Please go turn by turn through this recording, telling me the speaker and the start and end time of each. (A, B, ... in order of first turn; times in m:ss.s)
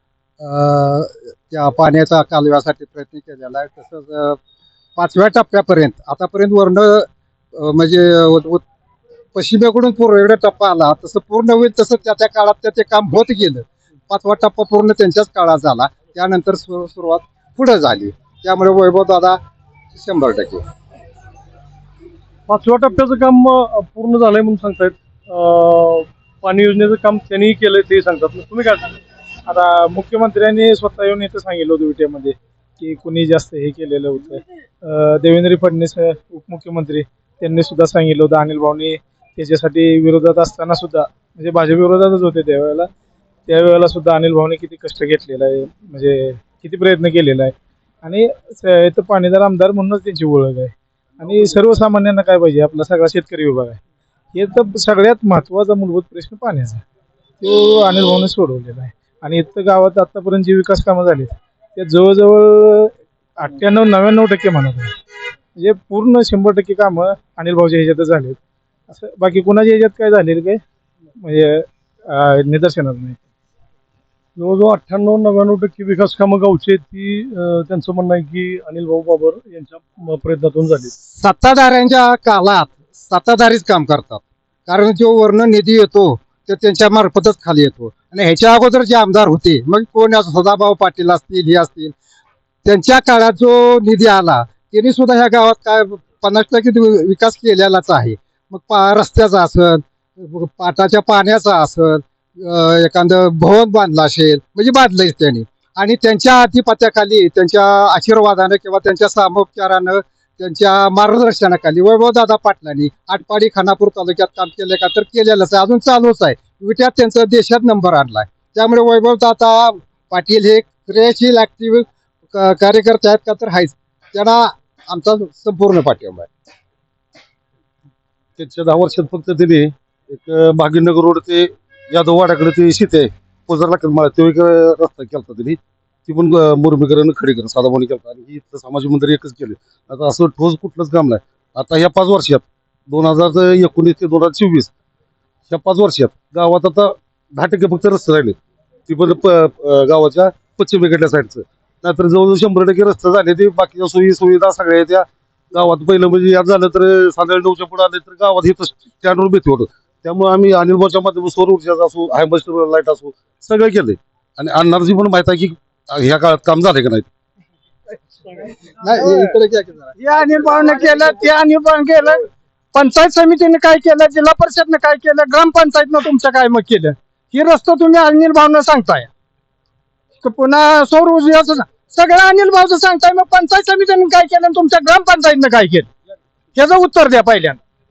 0:00.4-0:04.4 A
0:05.0-0:08.6 A
0:09.3-0:19.4 A
0:19.9-0:20.6 A
0:22.5-0:28.9 B
0:29.5-0:42.9 C
0:43.5-0:53.8 C
0:54.3-0:56.8 C
0:57.4-1:04.9 C
1:05.6-1:08.4 C
1:08.9-1:10.6 C
1:11.2-1:13.2 C
1:14.4-1:20.9 B
1:21.0-1:31.9 A
1:32.6-2:06.3 A
2:08.4-2:24.7 D
2:25.5-2:28.4 D
2:28.9-2:47.1 D
2:48.8-2:49.9 A
2:50.0-2:59.1 E
3:00.2-3:05.9 E
3:06.5-3:07.6 E